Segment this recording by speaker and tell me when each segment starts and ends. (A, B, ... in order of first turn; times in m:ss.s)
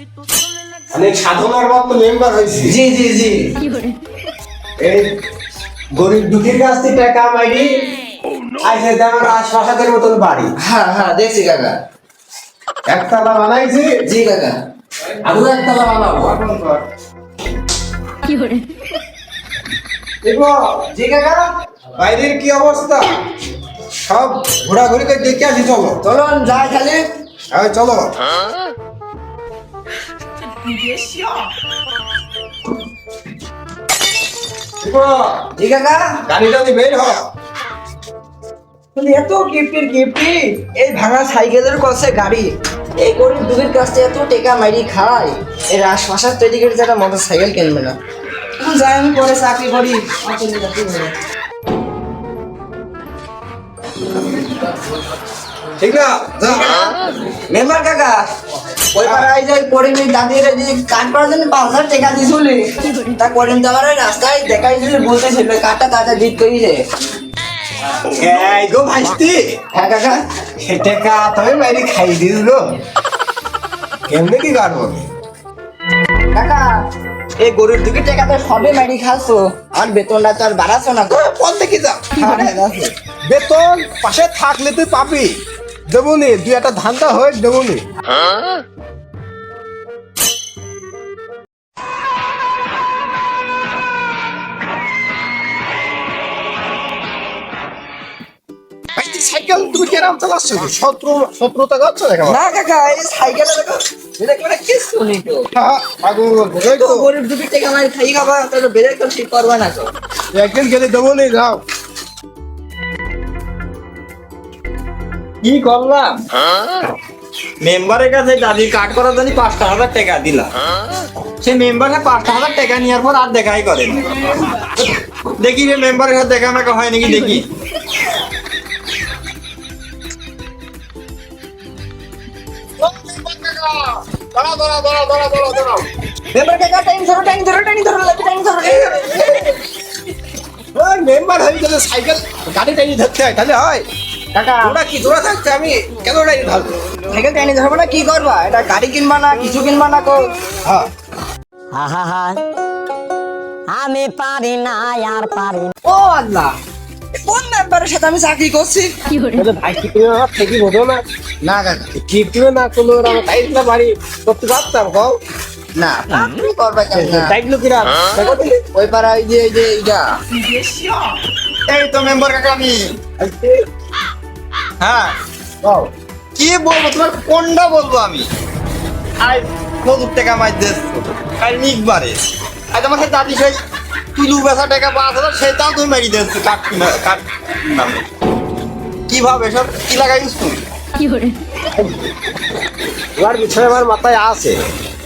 0:00.9-0:02.8 A
0:02.6-0:03.5 B
0:04.8-0:05.1 A
0:05.9-0:07.8 A
0:08.6-0:10.5 A
0:10.6-0:11.8 B
0:12.9-0:14.0 A
0:14.0-0:14.6 B
0:15.2-0:16.8 B
0:20.2-0:20.9 A
0:20.9-0:21.5 B
0:22.0-0:23.1 A
0:24.0-0:26.0 A
0:26.0-0:27.1 B
0:27.5-0:28.2 A
0:30.7-0:31.4 A
0:34.8-0:35.5 A
0:35.5-0:36.2 B
0:36.2-0:37.3 A
0:38.9-0:48.0 B
0:48.6-0:51.1 B
0:55.8-0:56.8 A
0:56.4-0:56.9 B
0:57.5-0:58.2 B
0:58.9-1:06.8 B
1:08.0-1:09.6 A
1:09.7-1:10.2 B
1:10.6-1:12.6 A
1:14.1-1:15.1 A
1:16.3-1:16.8 B
1:17.4-1:21.2 B
1:21.1-1:22.1 A
1:22.1-1:22.9 B
1:23.3-1:25.3 A
1:25.9-1:27.8 A
1:38.9-1:42.4 A
1:42.2-1:45.5 B
1:45.5-1:47.1 A
1:46.6-1:49.9 B
1:50.3-1:51.6 A
1:55.4-1:56.2 C
1:57.6-2:00.5 C
2:01.4-2:04.6 C
2:05.4-2:07.4 C
2:12.8-2:15.9 C
2:16.3-2:19.2 B
2:18.6-2:19.5 A
2:20.7-2:23.8 A
2:24.3-2:24.8 B
2:24.6-2:26.7 A
2:27.1-2:30.2 B
2:31.7-2:32.4 D
2:33.7-2:35.7 D
2:35.8-2:36.5 B
2:37.2-2:38.9 B
2:39.3-2:41.0 A
2:41.4-2:41.9 B
2:41.9-2:45.2 A
2:45.8-2:47.3 B
2:46.9-2:48.6 A
2:48.7-2:50.0 B
2:50.4-2:51.2 A
2:51.7-2:53.0 C
2:53.2-2:53.6 A
2:54.8-2:55.1 C
2:55.6-2:55.9 A
2:56.4-2:58.3 C
2:59.2-3:03.6 C
3:04.1-3:08.0 C
3:09.1-3:10.6 C
3:13.2-3:14.6 A